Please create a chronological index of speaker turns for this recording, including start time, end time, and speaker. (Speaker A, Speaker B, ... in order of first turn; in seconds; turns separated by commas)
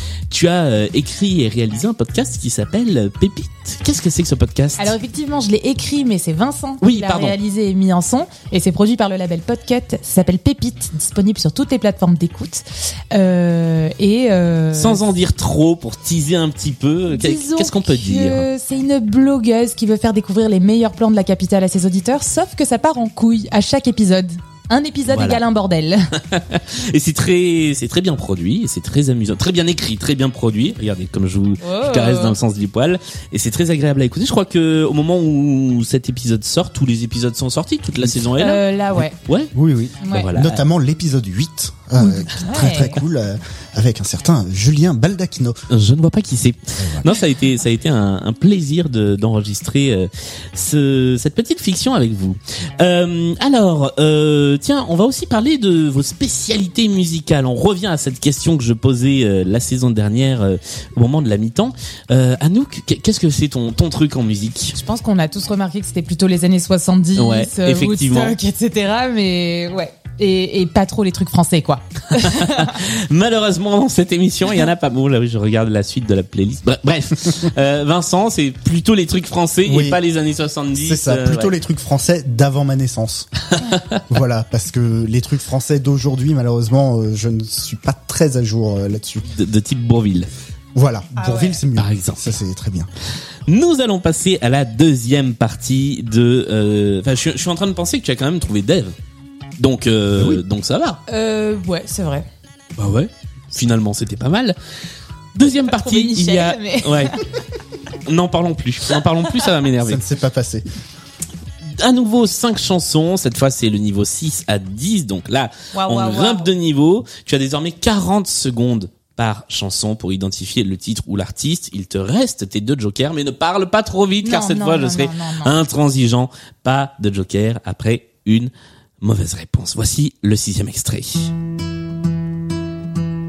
Speaker A: 0.3-4.9, Speaker B: 4.8-15.1, Speaker A: 6.8-7.3, Speaker A: 14.7-18.5, Speaker B: 17.1-26.1, Speaker A: 25.1-25.4, Speaker A: 26.2-39.5, Speaker B: 31.6-32.4, Speaker B: 38.3-39.2, Speaker C: 39.5-45.6, Speaker B: 40.0-40.3, Speaker A: 40.0-40.6, Speaker B: 42.0-43.0, Speaker A: 45.7-64.8, Speaker C: 46.8-47.0, Speaker B: 64.7-72.8, Speaker A: 67.1-68.3, Speaker A: 72.2-81.5, Speaker C: 79.6-80.0, Speaker C: 80.7-83.3, Speaker C: 84.1-89.2, Speaker A: 89.3-90.3, Speaker C: 90.7-92.9, Speaker B: 91.2-91.6, Speaker A: 91.7-92.3, Speaker A: 93.5-98.9, Speaker A: 99.6-101.0, Speaker C: 100.2-100.4, Speaker B: 101.1-102.2, Speaker A: 102.8-104.6, Speaker A: 105.3-107.1, Speaker B: 105.6-107.2, Speaker A: 108.0-110.0, Speaker C: 109.8-110.6, Speaker A: 111.7-131.3, Speaker B: 115.7-116.5, Speaker B: 124.2-125.6